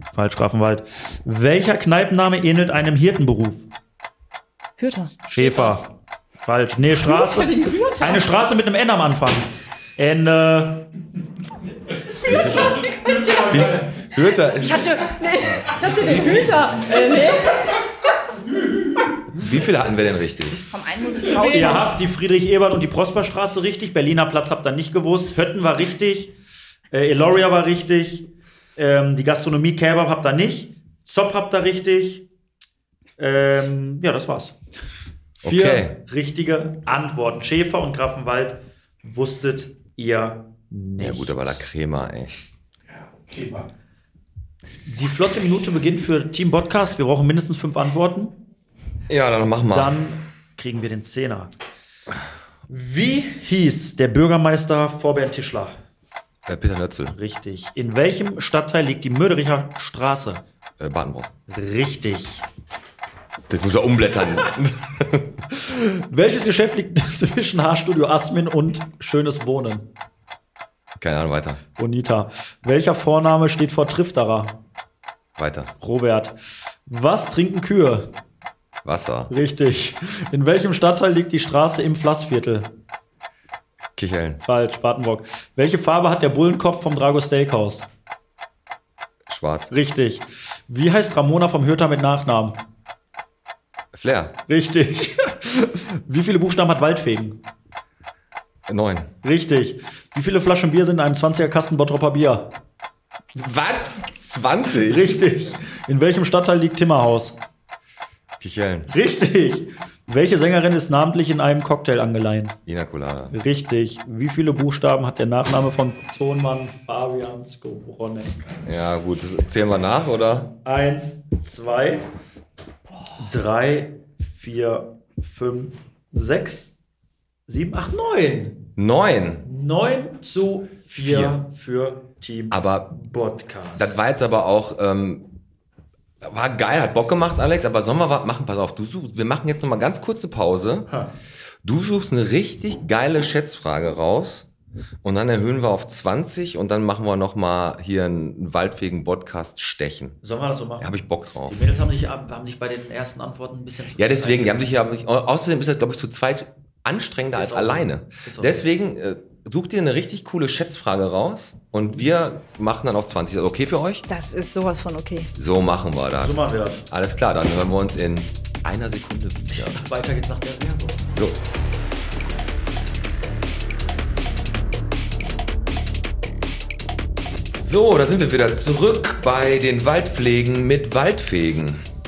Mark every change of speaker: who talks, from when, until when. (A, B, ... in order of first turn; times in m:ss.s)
0:00.1-0:03.7 A
0:04.8-0:05.8 B
0:05.3-0:05.9 A
0:06.4-0:10.9 A
0:07.1-0:08.2 B
0:12.3-0:15.0 C
0:14.6-0:17.7 B
0:15.9-0:16.4 C
0:19.3-0:20.7 C
0:20.7-0:22.0 B
0:21.3-0:26.3 A
0:26.9-0:32.3 A
0:33.2-0:34.6 A
0:35.4-0:36.0 C
0:35.4-0:41.6 A
0:41.0-0:42.3 C
0:43.1-0:43.7 A
0:44.9-0:48.4 A
0:49.1-0:50.0 C
0:49.7-0:51.5 A
0:52.7-0:55.8 A
0:56.5-0:57.2 C
0:57.1-1:00.4 A
1:00.8-1:01.3 C
1:01.5-1:02.4 A
1:03.5-1:05.3 C
1:05.5-1:09.9 A
1:11.0-1:11.6 C
1:11.8-1:14.6 A
1:15.4-1:15.7 C
1:15.8-1:18.1 A
1:18.8-1:19.3 C
1:19.3-1:22.7 A
1:24.0-1:24.4 C
1:24.4-1:27.9 A
1:29.3-1:29.7 C
1:29.7-1:32.6 A
1:33.9-1:34.4 C
1:34.5-1:37.4 A
1:38.7-1:39.1 C
1:39.2-1:42.6 A
1:43.3-1:45.1 C
1:44.7-1:47.4 A
1:48.4-1:48.9 C
1:48.9-1:52.6 A
1:52.7-1:53.3 C
1:53.3-1:58.5 A
1:58.6-2:00.5 C
2:00.6-2:02.0 A
2:03.1-2:06.7 A
2:07.5-2:08.7 A
2:08.8-2:09.4 C
2:09.4-2:14.0 A
2:11.0-2:11.4 C
2:12.5-2:13.0 C
2:13.8-2:15.3 C
2:16.2-2:20.9 C
2:21.6-2:24.5 C
2:25.0-2:30.2 C
2:30.2-2:34.6 A
2:30.8-2:31.6 C
2:34.0-2:44.0 C
2:37.3-2:38.6 A
2:44.1-2:45.3 B
2:45.4-2:49.8 C
2:46.2-2:46.8 A
2:49.5-2:51.1 A
2:51.1-2:51.4 C
2:57.6-3:01.8 C